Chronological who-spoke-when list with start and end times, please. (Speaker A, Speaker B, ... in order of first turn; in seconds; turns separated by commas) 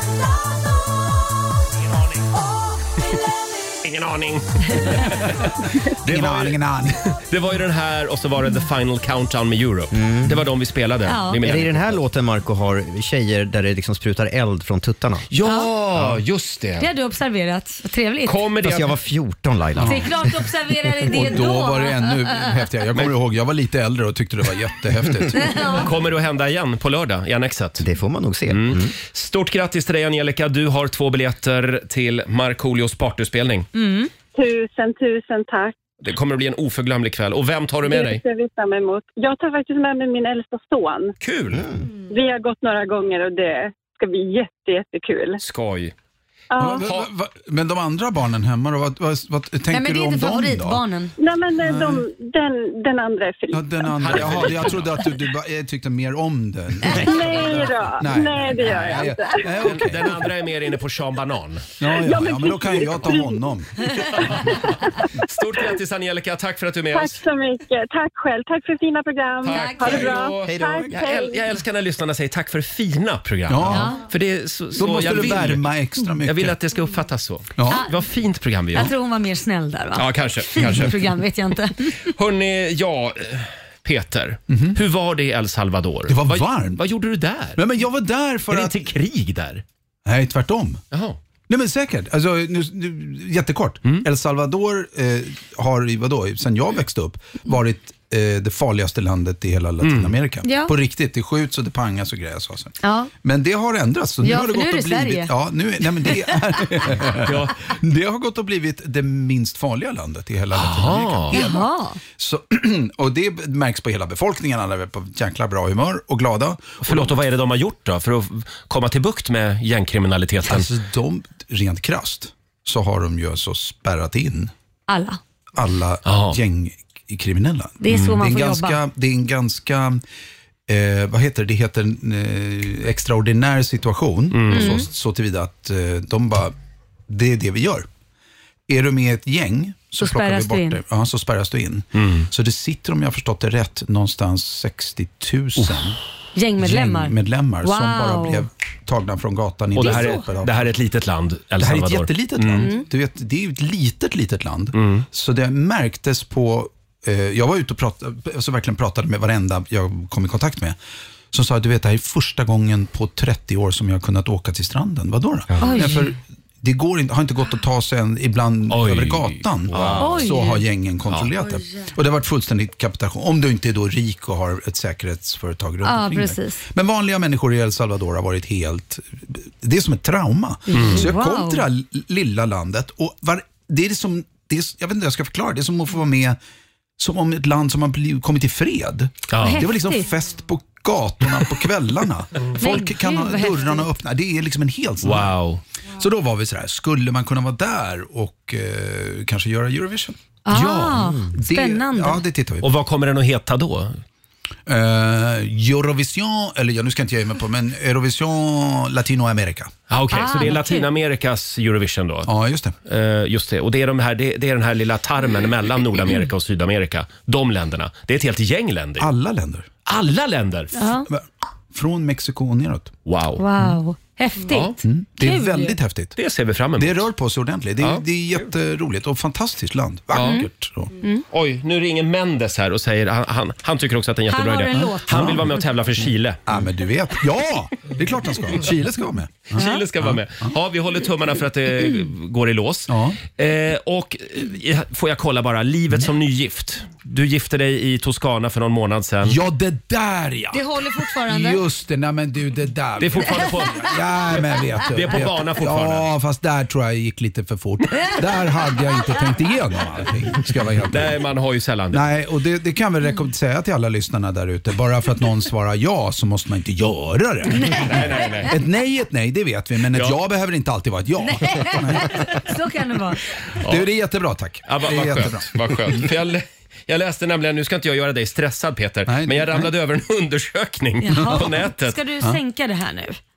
Speaker A: 3.8-5.5, Speaker A: 6.0-6.6, Speaker B: 6.0-7.0, Speaker A: 7.1-12.0, Speaker C: 9.9-10.4, Speaker D: 11.1-11.4, Speaker C: 11.4-15.3, Speaker A: 15.3-16.9, Speaker D: 16.8-18.4, Speaker A: 18.3-19.0, Speaker C: 18.6-20.1, Speaker B: 19.8-20.0, Speaker D: 19.8-22.1, Speaker B: 21.1-25.7, Speaker D: 25.4-25.8, Speaker A: 25.6-27.9, Speaker C: 27.8-28.9, Speaker A: 28.5-33.7, Speaker D: 33.8-34.1, Speaker E: 34.3-35.8, Speaker A: 36.0-38.2, Speaker E: 37.9-41.1, Speaker A: 41.2-41.7, Speaker C: 41.5-41.8, Speaker E: 42.1-45.4, Speaker A: 45.4-45.9, Speaker E: 46.5-46.9, Speaker B: 46.6-50.8, Speaker A: 46.8-47.1, Speaker D: 49.7-51.1, Speaker E: 51.2-53.6, Speaker B: 51.6-52.0, Speaker B: 53.5-60.2, Speaker A: 54.0-55.0, Speaker E: 56.9-59.5, Speaker A: 59.6-61.7, Speaker B: 61.8-63.7, Speaker E: 61.9-63.5, Speaker A: 64.1-64.7, Speaker A: 65.2-67.2, Speaker E: 66.9-71.4, Speaker A: 69.4-75.7, Speaker D: 69.5-70.2, Speaker C: 70.5-70.9, Speaker B: 73.5-73.9, Speaker D: 73.7-74.0, Speaker B: 74.8-76.5, Speaker A: 76.2-78.9, Speaker B: 77.6-77.8, Speaker D: 77.7-77.9, Speaker D: 78.7-82.0, Speaker A: 80.0-81.0, Speaker A: 82.1-87.6, Speaker B: 84.5-84.8, Speaker B: 86.1-86.8, Speaker B: 87.6-88.8, Speaker A: 88.5-89.6, Speaker B: 90.0-90.8, Speaker A: 90.9-91.2, Speaker B: 91.5-117.1, Speaker A: 99.8-100.2, Speaker D: 100.4-100.7, Speaker D: 102.8-103.1, Speaker D: 104.2-105.3, Speaker A: 107.2-107.5, Speaker A: 110.5-111.4, Speaker D: 111.3-112.0, Speaker A: 116.8-120.7, Speaker B: 120.5-124.5, Speaker D: 124.9-125.2, Speaker B: 125.6-130.0, Speaker A: 126.1-126.4, Speaker D: 127.8-128.8, Speaker A: 127.9-128.2, Speaker B: 130.7-136.5, Speaker A: 134.3-134.8, Speaker D: 134.5-134.9, Speaker B: 137.1-137.9, Speaker B: 138.7-146.0, Speaker D: 140.0-140.8, Speaker A: 141.9-142.3, Speaker D: 146.4-148.4, Speaker B: 146.6-150.7, Speaker A: 149.7-152.7, Speaker D: 149.8-150.3, Speaker B: 151.6-160.8, Speaker D: 152.6-152.8, Speaker A: 154.7-155.1, Speaker B: 161.3-186.4, Speaker D: 165.6-166.1, Speaker A: 168.7-170.2, Speaker D: 170.0-170.6, Speaker D: 175.8-176.6, Speaker D: 180.7-181.7, Speaker A: 180.7-181.1, Speaker B: 187.0-195.4, Speaker A: 189.3-189.7, Speaker D: 189.4-190.1, Speaker D: 192.6-193.9, Speaker A: 195.0-195.6, Speaker B: 196.0-202.7, Speaker D: 200.5-202.2, Speaker A: 202.6-204.0, Speaker B: 204.7-209.7, Speaker A: 209.9-212.3, Speaker D: 210.1-210.9, Speaker B: 212.3-212.8, Speaker A: 212.9-219.1, Speaker B: 219.0-219.7, Speaker A: 219.9-220.7, Speaker D: 220.7-221.1, Speaker B: 221.1-222.9, Speaker A: 223.1-223.4, Speaker D: 223.4-225.8, Speaker A: 224.5-224.8, Speaker B: 224.8-226.2, Speaker A: 226.2-227.1, Speaker B: 226.8-230.9, Speaker A: 227.8-228.4, Speaker A: 230.1-230.4, Speaker D: 230.2-230.5, Speaker A: 231.3-236.4, Speaker D: 234.3-235.5, Speaker B: 234.7-235.4, Speaker B: 236.5-240.5, Speaker A: 239.5-249.4, Speaker B: 242.9-243.2, Speaker B: 249.2-261.2, Speaker D: 250.5-251.6, Speaker A: 253.0-253.9, Speaker A: 254.9-256.1, Speaker A: 260.9-262.0, Speaker B: 261.9-272.3, Speaker D: 267.6-268.3, Speaker A: 267.6-268.6, Speaker A: 269.9-270.2, Speaker D: 271.2-273.2, Speaker A: 273.6-273.9, Speaker B: 273.6-276.1, Speaker A: 274.7-282.0, Speaker B: 279.1-279.7, Speaker D: 281.0-283.2, Speaker B: 281.1-281.5